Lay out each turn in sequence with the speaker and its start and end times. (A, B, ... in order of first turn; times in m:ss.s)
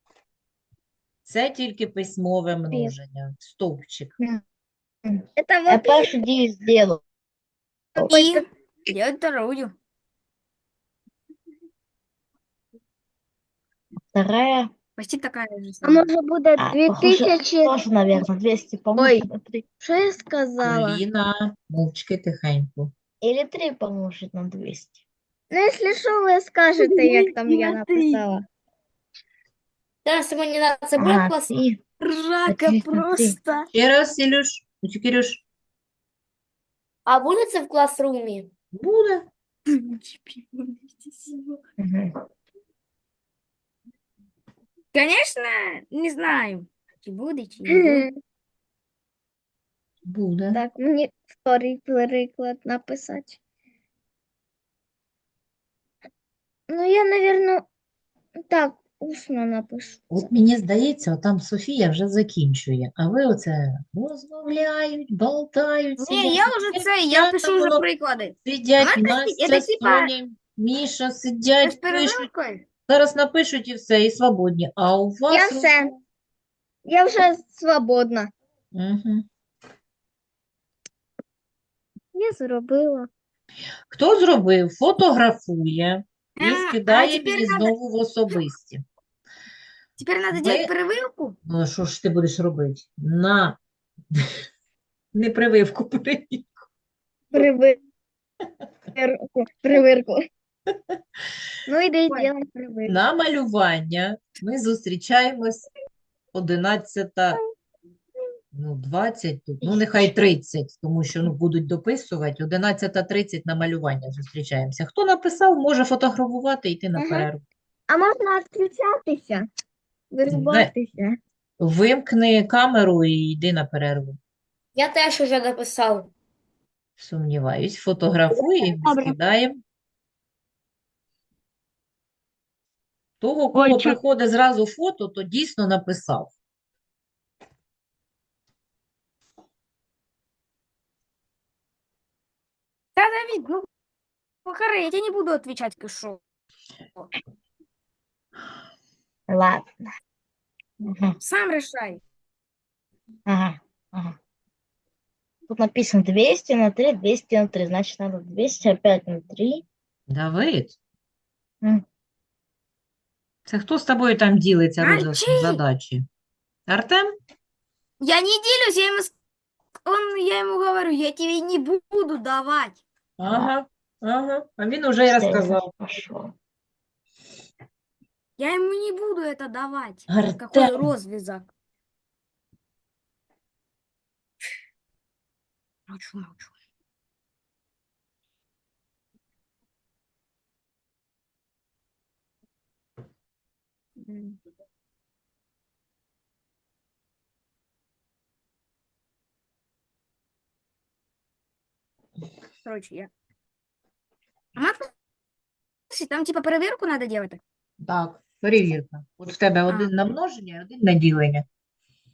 0:01.2-0:04.1 A
0:05.1-0:07.0 B
0:05.4-0:06.2 C
0:08.0-0:08.4 C
0:08.0-0:09.7 D
0:14.1-0:14.7 B
0:15.0-0:16.1 D
0:15.8-0:18.2 C
0:16.6-0:19.6 B
0:19.0-0:19.3 C
0:19.8-0:21.0 C
0:20.6-0:22.9 A
0:23.2-0:25.0 B
0:25.5-0:28.4 C
0:26.8-0:28.2 D
0:30.0-0:31.5 E
0:31.0-0:31.8 B
0:32.0-0:33.7 D
0:32.5-0:33.4 B
0:33.7-0:35.4 A
0:37.1-0:38.5 E
0:38.7-0:39.3 A
0:39.7-0:41.6 D
0:41.8-0:42.1 B
0:44.9-0:48.1 D
0:47.7-0:48.1 C
0:50.1-0:50.6 A
0:50.5-0:53.4 C
0:56.7-0:57.6 C
0:58.4-1:00.2 C
1:00.1-1:07.8 A
1:06.0-1:10.1 D
1:08.4-1:12.3 A
1:11.6-1:12.6 D
1:12.9-1:15.7 A
1:15.3-1:15.9 C
1:16.9-1:18.3 C
1:18.7-1:19.3 A
1:22.1-1:23.1 C
1:23.9-1:28.8 A
1:26.4-1:27.7 D
1:30.0-1:31.4 D
1:30.3-1:30.7 A
1:31.5-1:33.6 A
1:35.1-1:36.7 A
1:37.3-1:37.8 C
1:39.0-1:40.2 C
1:41.7-1:43.0 C
1:42.9-1:45.7 A
1:46.3-1:47.4 A
1:48.5-1:57.4 A
1:57.0-1:57.3 C
1:57.9-1:59.5 C
2:00.1-2:01.2 C
2:00.3-2:00.7 A
2:01.6-2:04.2 A
2:04.8-2:06.1 E
2:07.0-2:09.6 A
2:08.6-2:09.2 C
2:13.2-2:16.3 A
2:13.6-2:14.0 C
2:23.0-2:23.7 D
2:24.4-2:26.2 D
2:29.3-2:29.7 B
2:30.8-2:31.2 B
2:31.2-2:32.0 D
2:33.3-2:34.2 B
2:35.5-2:39.6 B
2:40.1-2:40.8 A
2:43.5-2:46.1 A
2:44.8-2:45.6 D
2:46.7-2:47.1 A
2:48.0-2:49.1 D
2:49.9-2:52.8 D
2:53.2-2:55.7 A
2:53.2-2:53.5 B
2:55.1-2:56.3 B
2:58.4-3:01.5 D
3:00.1-3:00.9 A
3:05.9-3:06.5 D
3:14.0-3:14.4 D
3:22.6-3:23.1 D
3:24.6-3:24.9 D
3:25.9-3:27.4 D
3:27.8-3:31.4 A